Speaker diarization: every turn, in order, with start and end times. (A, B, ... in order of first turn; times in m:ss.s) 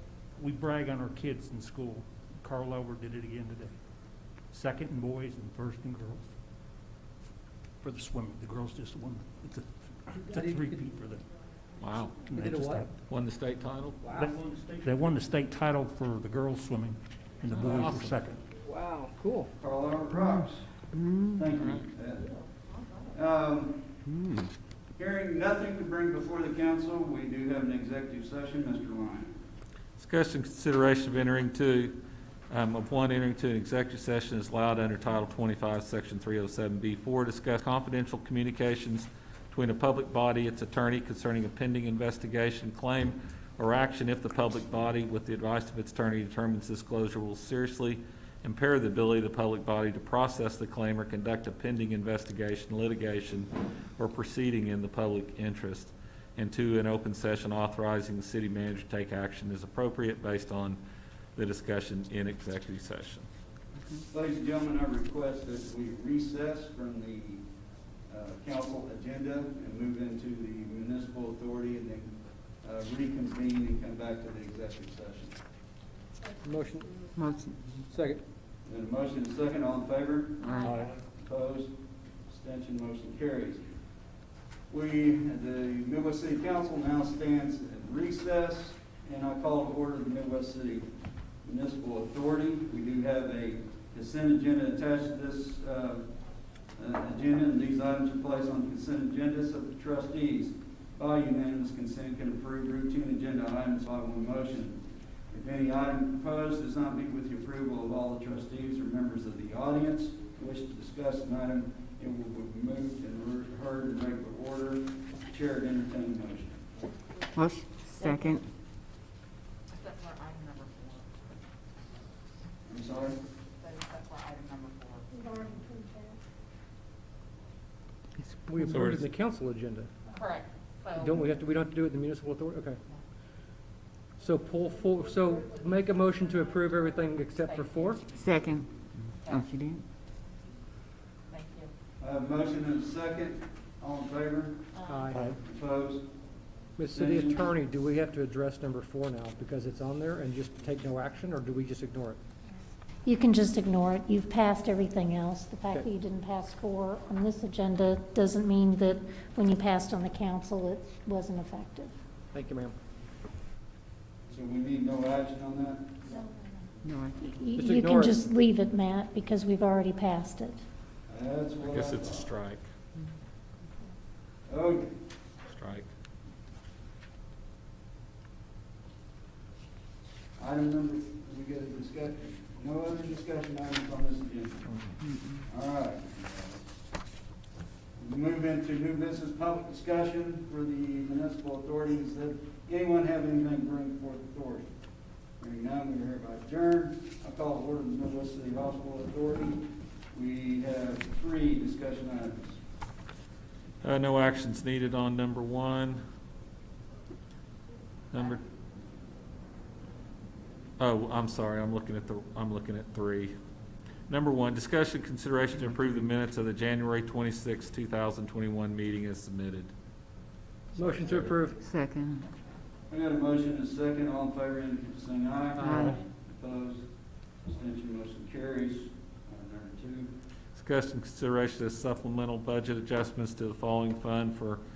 0:00.4-0:03.8 A
0:04.5-0:06.3 A
0:07.8-0:11.2 A
0:10.3-0:10.8 B
0:11.8-0:12.2 C
0:12.2-0:12.9 A
0:12.3-0:12.9 B
0:13.1-0:14.0 C
0:14.0-0:14.4 B
0:14.1-0:18.4 A
0:17.5-0:18.1 C
0:18.6-0:19.5 B
0:19.6-0:20.7 D
0:21.0-0:21.4 E
0:21.3-0:22.3 D
0:21.6-0:21.8 C
0:23.1-0:24.0 D
0:25.0-0:29.3 D
0:30.0-0:32.0 C
0:32.5-1:00.8 C
1:01.4-1:03.3 C
1:04.1-1:07.4 D
1:08.1-1:15.4 D
1:16.4-1:16.9 B
1:17.2-1:17.6 E
1:17.9-1:18.2 B
1:18.6-1:21.7 D
1:20.4-1:20.7 E
1:22.3-1:23.6 D
1:24.7-1:30.9 D
1:31.4-1:36.0 D
1:36.8-1:56.6 D
1:57.3-1:58.4 E
1:58.0-1:58.3 F
1:59.7-2:01.2 F
2:02.7-2:03.2 D
2:03.6-2:05.0 F
2:05.1-2:06.2 G
2:08.2-2:08.9 E
2:08.5-2:09.9 B
2:08.7-2:09.0 C
2:10.1-2:11.2 F
2:11.0-2:12.8 B
2:14.2-2:18.0 B
2:17.4-2:18.3 F
2:18.2-2:18.7 E
2:19.2-2:19.8 E
2:21.3-2:21.7 F
2:22.0-2:24.6 D
2:24.9-2:25.3 B
2:25.4-2:26.0 D
2:26.8-2:32.2 B
2:26.9-2:27.5 D
2:33.0-2:41.9 G
2:42.3-2:42.8 B
2:44.3-2:46.0 D
2:46.8-2:47.3 E
2:47.2-2:50.6 G
2:47.6-2:48.2 B
2:51.1-2:52.3 D
2:51.6-2:52.6 C
2:54.5-2:54.9 D
2:55.5-2:55.9 C
3:00.4-3:04.9 D
3:05.4-3:06.6 D
3:08.0-3:14.7 D
3:15.4-3:22.6 D
3:23.8-3:26.0 C
3:28.1-3:28.4 C
3:30.8-3:33.3 C
3:34.1-3:39.7 C
3:40.7-3:41.4 C
3:40.8-3:41.6 B
3:41.6-3:42.2 E
3:42.9-3:46.8 D
3:45.6-3:46.0 E
3:45.6-3:45.9 B
3:47.4-3:50.1 D
3:50.5-3:54.6 C